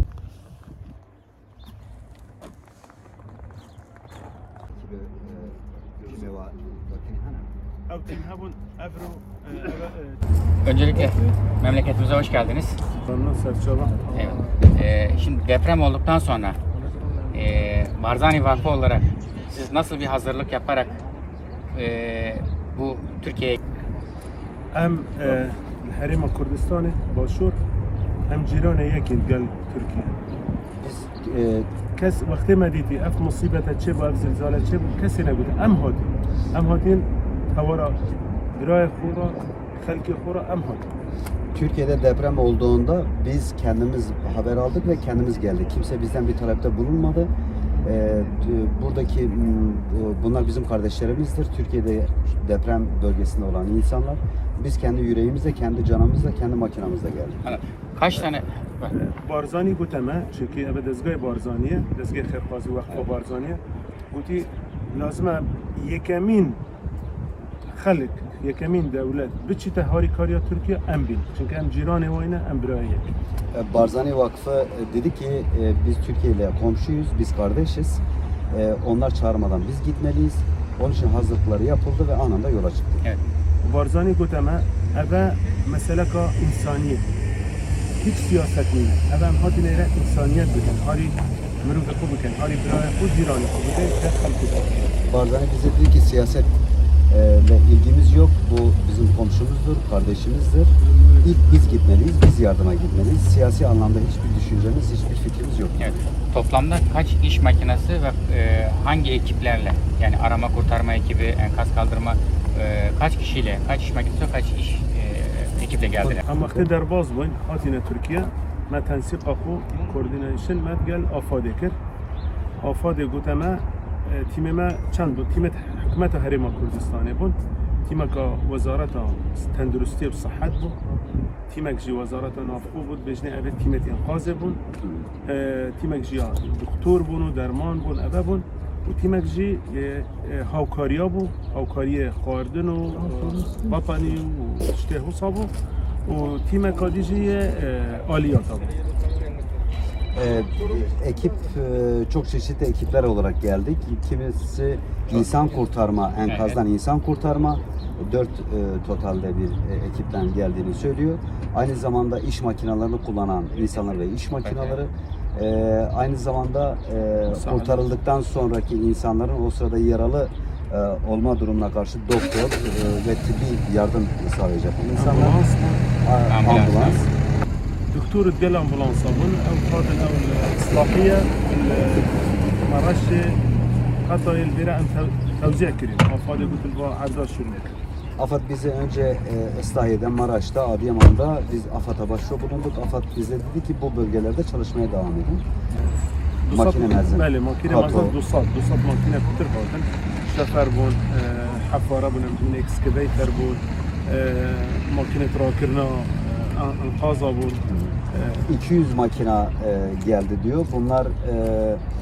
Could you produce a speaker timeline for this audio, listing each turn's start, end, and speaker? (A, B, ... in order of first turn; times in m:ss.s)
0:04.7-0:07.5 A
0:07.9-0:10.2 B
0:10.6-0:12.8 C
0:13.0-0:14.0 B
0:14.1-0:16.6 C
0:17.3-0:20.9 C
0:21.7-0:23.6 C
0:24.7-0:27.6 B
0:28.3-0:30.2 B
0:30.8-0:31.7 A
0:31.9-0:38.0 B
0:38.5-0:40.9 B
0:41.5-0:47.3 A
0:47.8-0:57.4 A
0:57.4-0:58.9 C
0:58.9-1:03.6 B
1:04.1-1:06.6 B
1:07.7-1:13.1 B
1:13.5-1:23.0 A
1:23.6-1:27.1 B
1:28.0-1:34.8 B
1:35.0-1:36.5 A
1:37.1-1:45.8 A
1:45.8-1:56.2 C
1:56.0-1:56.7 A
1:56.2-2:01.8 B
2:02.6-2:10.8 B
2:11.5-2:14.6 B
2:15.2-2:25.5 B
2:26.0-2:28.7 B
2:30.1-2:55.4 A
2:36.3-2:36.6 C
2:44.4-2:44.8 C
2:47.3-2:47.9 B
2:54.9-2:55.8 B
2:56.0-2:57.1 A
2:56.3-2:57.0 C
2:57.9-3:03.4 B
3:04.0-3:07.8 B
3:06.3-3:06.6 A
3:08.2-3:15.4 A
3:16.4-3:28.5 B
3:16.5-3:18.2 A
3:27.7-3:31.8 A